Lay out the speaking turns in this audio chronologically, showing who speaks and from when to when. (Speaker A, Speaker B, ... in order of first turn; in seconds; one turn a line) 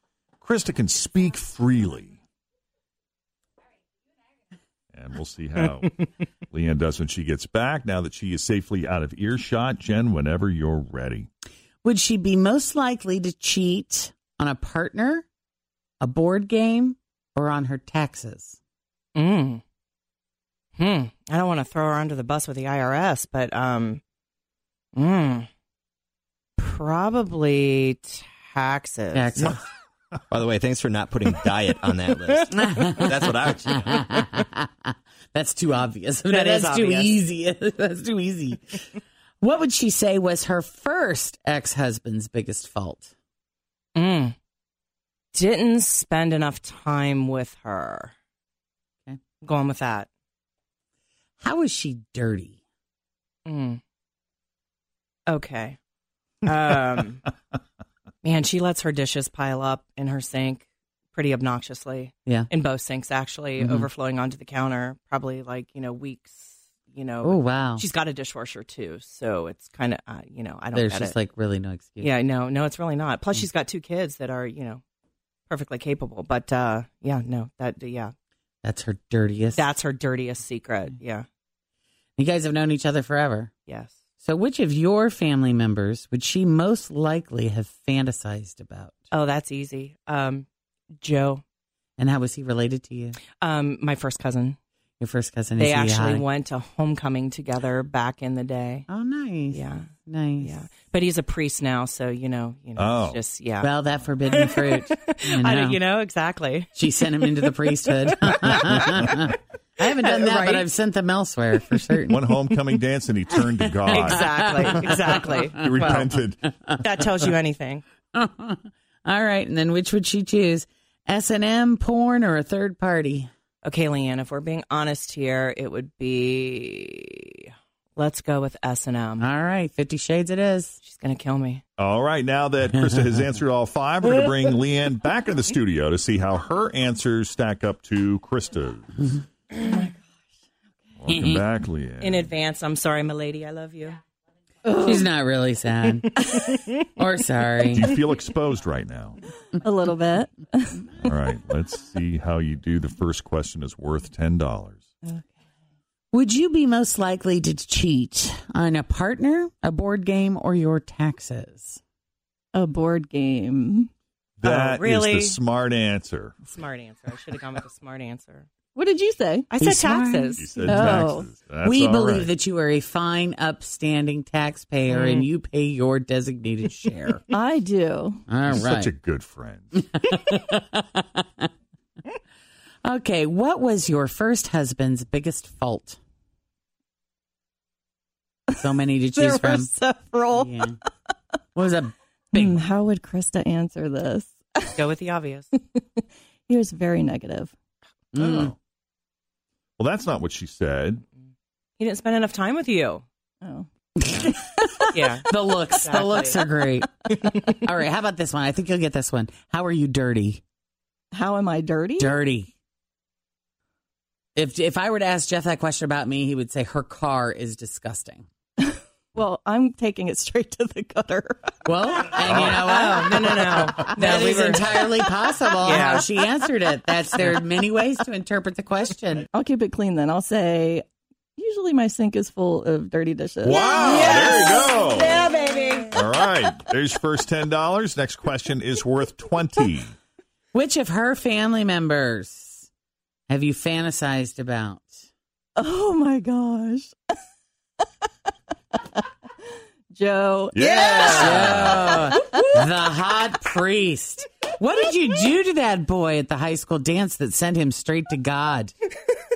Speaker A: 0.4-2.2
Speaker A: 4.9-11.3
Speaker B: 11.8-15.2
Speaker B: 16.0-18.6
Speaker C: 19.1-19.6
Speaker C: 20.8-24.0
Speaker C: 24.9-25.5
Speaker C: 26.6-29.6
Speaker B: 29.1-29.6
Speaker D: 30.3-34.1
Speaker B: 32.5-38.8
Speaker C: 36.3-37.2
Speaker B: 39.4-43.1
Speaker C: 43.9-44.4
Speaker C: 45.3-48.1
Speaker C: 49.4-50.1
Speaker B: 51.4-52.6
Speaker C: 53.5-53.8
Speaker C: 55.3-55.8
Speaker C: 56.4-57.2
Speaker C: 58.2-71.1
Speaker B: 63.6-63.9
Speaker B: 67.2-67.8
Speaker B: 70.7-72.1
Speaker C: 72.0-74.8
Speaker C: 75.5-78.1
Speaker B: 78.6-79.7
Speaker C: 79.5-81.2
Speaker B: 82.2-83.5
Speaker C: 83.7-84.0
Speaker B: 84.2-89.0
Speaker C: 89.1-90.5
Speaker C: 91.0-91.4
Speaker B: 92.0-93.2
Speaker C: 93.4-94.6
Speaker B: 95.0-96.2
Speaker C: 95.6-98.8
Speaker B: 98.9-100.6
Speaker C: 99.5-99.9
Speaker C: 100.4-103.7
Speaker A: 102.8-103.2
Speaker B: 103.6-105.8
Speaker C: 104.3-106.7
Speaker B: 106.7-112.4
Speaker C: 110.0-110.7
Speaker A: 112.1-116.4
Speaker B: 113.4-116.0
Speaker C: 113.9-116.1
Speaker C: 116.8-117.8
Speaker B: 118.1-123.3
Speaker C: 123.6-129.2
Speaker B: 129.2-130.8
Speaker C: 130.8-131.6
Speaker A: 131.8-138.9
Speaker B: 132.7-133.2
Speaker E: 139.6-140.0
Speaker A: 141.0-142.3
Speaker B: 141.1-141.4
Speaker C: 142.0-144.0
Speaker E: 144.6-145.1
Speaker B: 144.7-147.9
Speaker A: 147.7-149.2
Speaker E: 149.6-150.9
Speaker A: 151.0-154.9
Speaker B: 156.1-161.8
Speaker E: 162.5-163.9
Speaker A: 164.4-166.3
Speaker C: 164.4-165.4
Speaker C: 166.4-168.5
Speaker E: 168.7-169.5
Speaker C: 169.5-170.6
Speaker B: 169.6-171.0
Speaker A: 170.4-172.3
Speaker E: 170.6-171.3
Speaker B: 171.6-177.2
Speaker C: 174.9-175.3
Speaker E: 177.3-178.2
Speaker B: 178.3-178.9
Speaker A: 178.5-179.8
Speaker B: 179.8-181.5
Speaker B: 182.8-186.0
Speaker B: 188.6-189.7
Speaker E: 188.6-190.7
Speaker B: 190.3-190.8
Speaker B: 191.6-192.6
Speaker E: 192.3-194.7
Speaker C: 194.7-195.5
Speaker E: 195.7-197.5
Speaker B: 198.1-198.5
Speaker A: 198.2-198.5
Speaker A: 199.8-201.0
Speaker C: 201.8-203.0
Speaker E: 203.4-203.7
Speaker B: 204.0-206.9
Speaker C: 204.1-204.3
Speaker C: 204.9-205.3
Speaker C: 205.8-206.4
Speaker B: 207.5-210.4
Speaker E: 211.1-212.2
Speaker B: 212.0-212.5
Speaker B: 214.3-218.2
Speaker E: 218.6-222.6
Speaker B: 221.6-229.2
Speaker A: 222.2-222.9
Speaker C: 222.9-224.8
Speaker C: 225.6-226.1
Speaker E: 229.3-230.8
Speaker E: 231.4-236.0
Speaker A: 233.4-235.2
Speaker A: 235.9-239.9
Speaker B: 240.5-242.7
Speaker B: 243.3-245.0
Speaker E: 245.6-246.9
Speaker E: 249.9-252.7
Speaker A: 250.5-252.2
Speaker B: 251.0-258.7